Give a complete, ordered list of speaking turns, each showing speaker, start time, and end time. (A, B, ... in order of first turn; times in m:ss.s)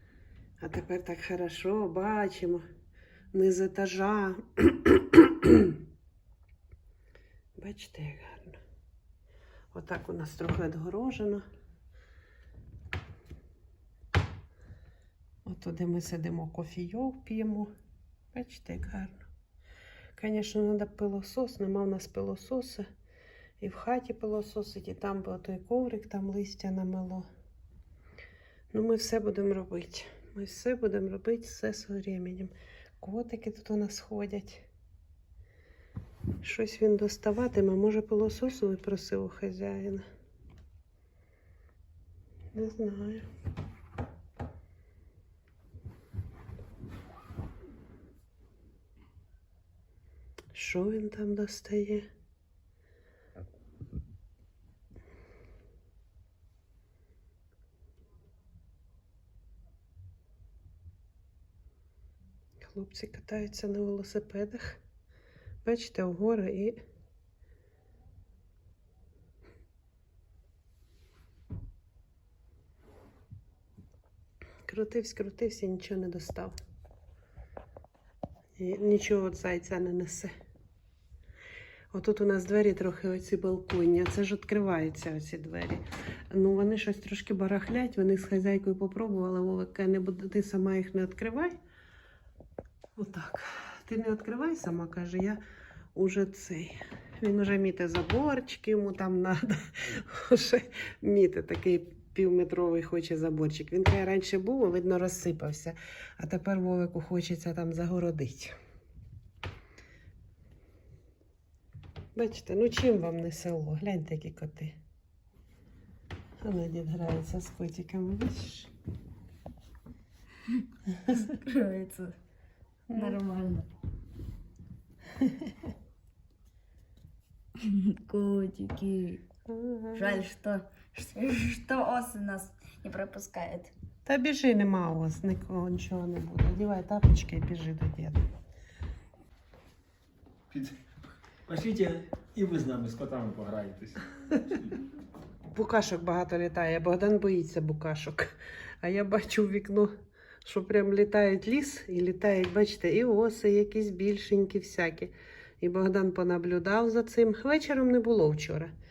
0:00.6-0:02.6 A
0:03.3-0:05.8 A
0:07.6-0:08.6 A
0:09.7-0:11.4 A
0:15.4-0:17.7 A
0:18.3-0:19.3 A
0:20.2-0:22.8 A
0:23.6-0:27.3 A
0:28.7-0:34.7 A
0:36.4-0:40.0 A
0:42.5-0:43.2 A
0:50.5-0:52.0 A
1:02.7-1:04.8 A
1:05.6-1:06.8 A
1:14.7-1:16.5 A
1:18.6-1:20.3 A
1:21.9-1:31.5 A
1:33.0-1:35.4 A
1:35.9-1:48.5 A
1:52.2-1:54.8 A
1:56.4-1:58.7 A
2:01.1-2:02.2 B
2:02.9-2:03.2 A
2:02.9-2:03.7 B
2:07.6-2:09.2 B
2:09.5-2:10.2 A
2:09.9-2:13.7 B
2:14.0-2:18.2 A
2:21.5-2:24.7 C
2:25.5-2:28.3 A
2:28.8-2:29.9 A
2:30.4-2:38.7 A